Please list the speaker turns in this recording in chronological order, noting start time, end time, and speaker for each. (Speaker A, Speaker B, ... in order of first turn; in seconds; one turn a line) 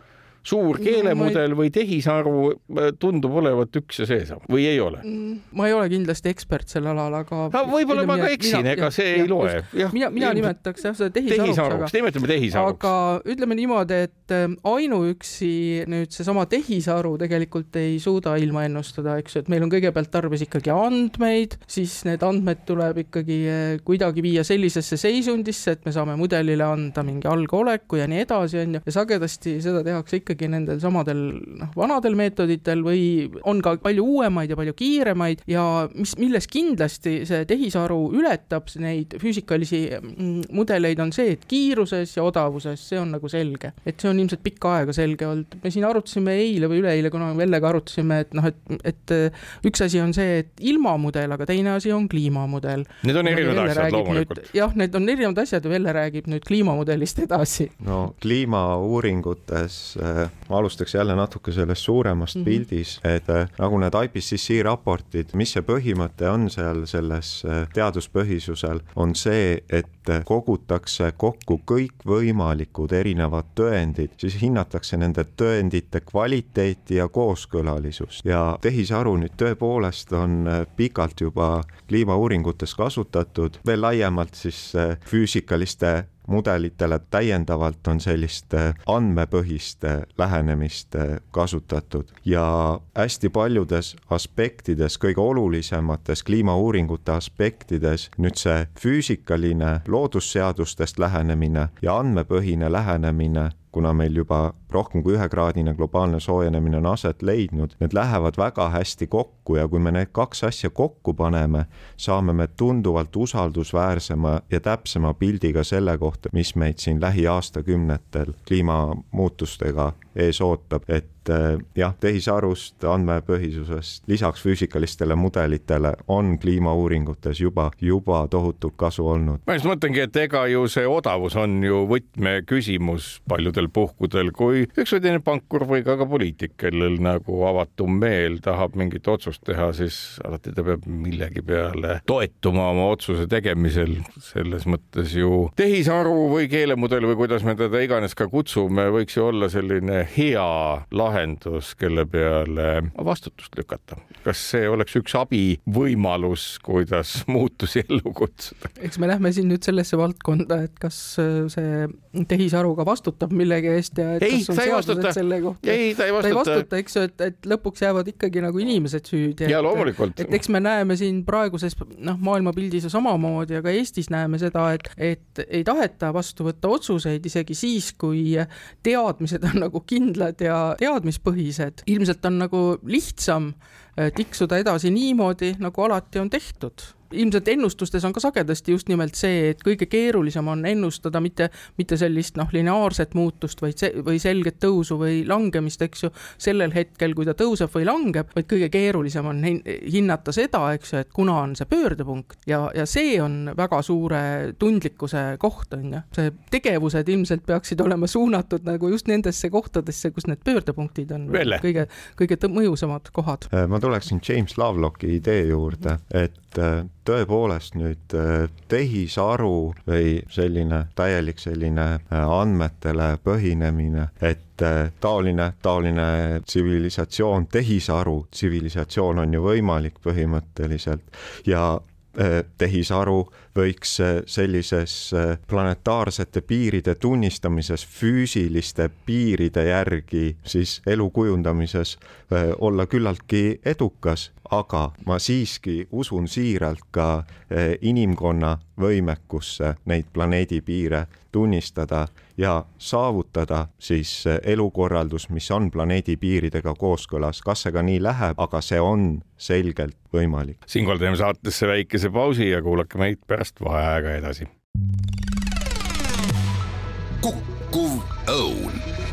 Speaker A: 0.4-5.0
Speaker B: 0.8-1.4
Speaker B: 5.0-11.9
Speaker A: 7.5-10.5
Speaker A: 11.3-12.9
Speaker B: 12.5-57.7
Speaker A: 53.0-54.5
Speaker C: 57.8-129.4
Speaker A: 129.5-158.7
Speaker B: 158.8-213.5
Speaker A: 164.2-166.7
Speaker A: 169.5-170.4
Speaker A: 211.3-211.7
Speaker C: 213.5-260.6
Speaker A: 260.7-264.5
Speaker A: 267.8-268.8